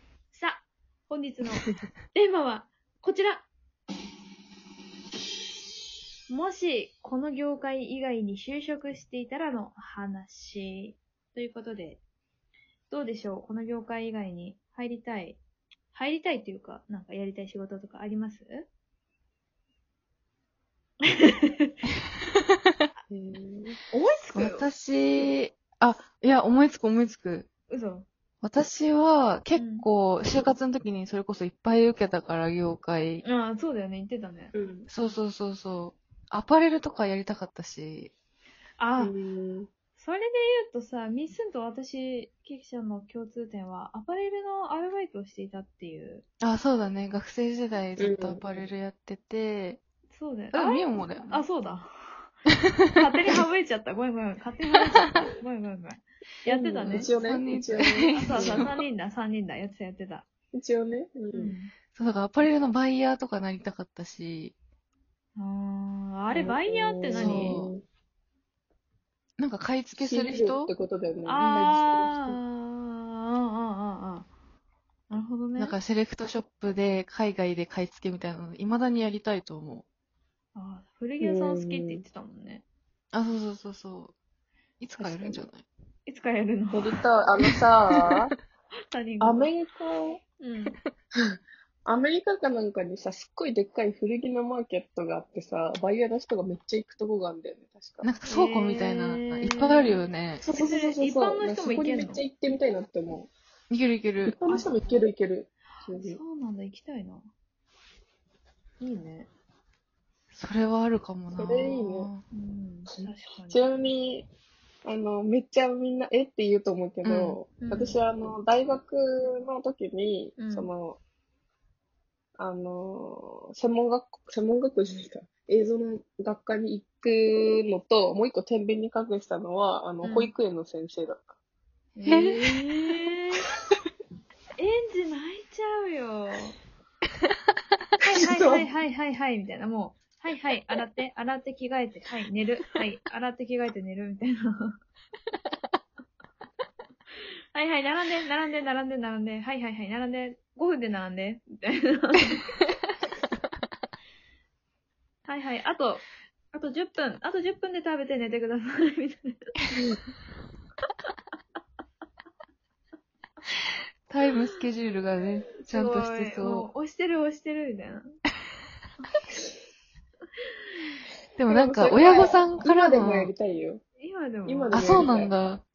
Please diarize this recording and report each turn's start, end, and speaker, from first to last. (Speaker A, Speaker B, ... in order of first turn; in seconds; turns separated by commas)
Speaker A: 0.3-3.5, Speaker A: 6.3-12.0, Speaker A: 12.9-15.4, Speaker A: 15.9-18.7, Speaker A: 21.1-21.8, Speaker B: 23.1-23.8, Speaker A: 23.9-24.7, Speaker C: 24.3-27.4, Speaker A: 27.7-28.1, Speaker C: 28.4-33.2, Speaker A: 29.6-29.8, Speaker A: 33.2-34.5, Speaker B: 34.5-34.9, Speaker C: 34.9-38.1, Speaker A: 38.8-39.1, Speaker B: 39.0-39.7, Speaker A: 40.0-46.2, Speaker C: 46.4-49.8, Speaker B: 48.0-48.4, Speaker A: 50.1-52.3, Speaker C: 50.5-51.4, Speaker A: 53.0-57.1, Speaker C: 54.8-55.2, Speaker B: 56.5-58.6, Speaker C: 56.9-58.8, Speaker A: 58.1-60.3, Speaker B: 60.5-61.5, Speaker A: 61.3-61.7, Speaker C: 61.9-64.5, Speaker A: 65.4-67.6, Speaker B: 66.3-67.8, Speaker C: 67.1-67.7, Speaker C: 69.4-70.7, Speaker B: 70.0-72.4, Speaker A: 71.2-74.3, Speaker A: 75.1-75.8, Speaker C: 75.6-79.8, Speaker A: 80.5-82.7, Speaker B: 81.2-82.0, Speaker C: 83.1-84.1, Speaker C: 84.8-85.7, Speaker B: 85.0-85.5, Speaker A: 86.1-86.9, Speaker B: 86.7-88.3, Speaker C: 87.6-88.3, Speaker A: 88.9-89.5, Speaker B: 89.2-90.2, Speaker A: 90.4-90.8, Speaker B: 91.8-98.1, Speaker C: 98.0-100.4, Speaker A: 98.3-100.0, Speaker B: 100.4-103.3, Speaker A: 100.5-102.2, Speaker C: 103.7-104.4, Speaker B: 104.2-106.2, Speaker A: 105.8-107.3, Speaker A: 108.8-109.3, Speaker C: 110.3-112.2, Speaker B: 111.3-112.1, Speaker A: 112.3-113.6, Speaker B: 112.9-114.3, Speaker B: 114.8-121.0, Speaker C: 117.0-117.4, Speaker A: 117.6-118.0, Speaker A: 120.4-120.7, Speaker B: 122.4-131.3, Speaker A: 130.0-130.3, Speaker A: 132.0-133.5, Speaker C: 132.1-133.0, Speaker A: 134.6-136.6, Speaker A: 138.0-144.8, Speaker B: 138.2-138.7, Speaker A: 147.5-152.6, Speaker A: 155.2-159.4, Speaker B: 159.7-160.0, Speaker C: 164.1-166.7, Speaker A: 165.6-168.1, Speaker C: 171.4-173.3, Speaker B: 171.5-173.8, Speaker A: 174.0-174.8, Speaker B: 174.4-175.3, Speaker C: 174.7-175.6